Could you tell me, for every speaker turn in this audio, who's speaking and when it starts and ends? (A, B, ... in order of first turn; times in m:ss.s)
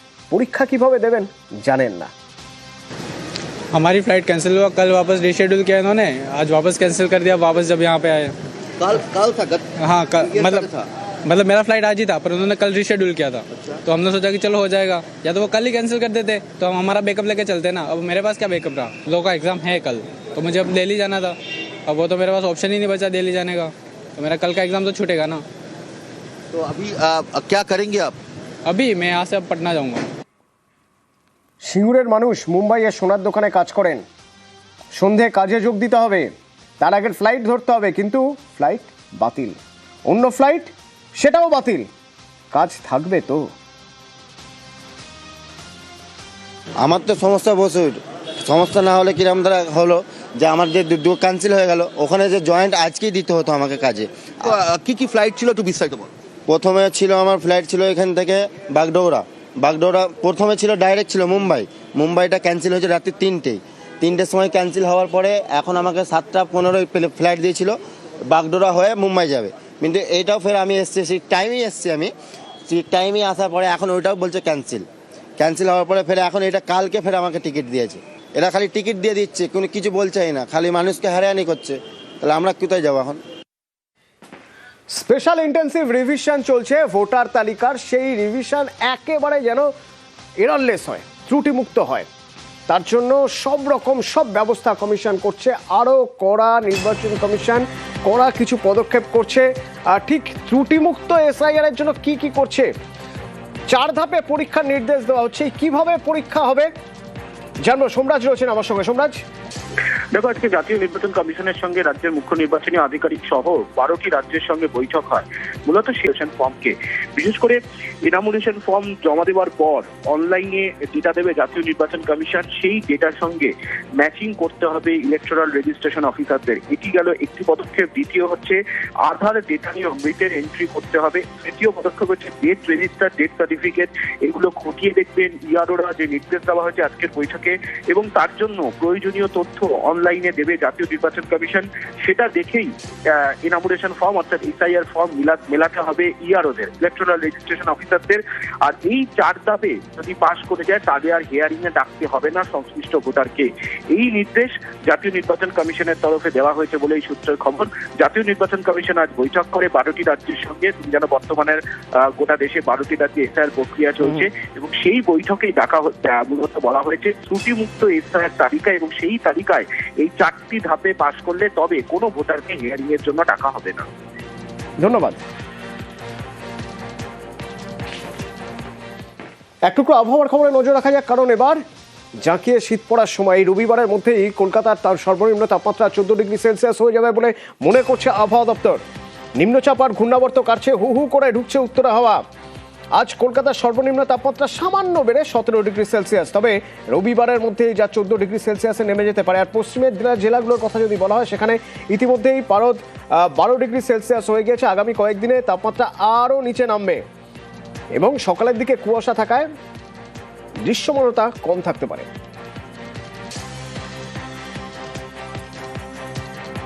0:00.3-0:02.1 A
0:03.7-0:08.3 B
0:08.8-0:10.8 C
0:09.8-0:10.7 B
0:11.3-0:21.4 B
0:21.9-0:25.4 B
0:26.5-0:28.2 C
0:28.7-0:30.1 B
0:31.6-0:34.0 A
0:35.0-0:41.9 A
0:42.5-0:43.5 A
0:46.8-0:54.5 D
0:54.5-0:56.1 C
0:56.5-1:07.8 D
1:08.3-1:12.1 D
1:12.7-1:14.9 D
1:15.4-1:23.2 D
1:24.9-1:29.7 A
1:30.4-1:32.1 A
1:32.7-1:42.7 A
1:43.7-1:46.7 A
1:47.6-1:49.2 A
1:50.1-2:53.9 E
2:54.8-2:55.2 A
2:59.7-3:01.6 A
3:02.2-3:08.8 A
3:09.4-3:12.2 A
3:13.0-3:27.0 A
3:28.0-3:29.5 A
3:30.6-3:32.1 A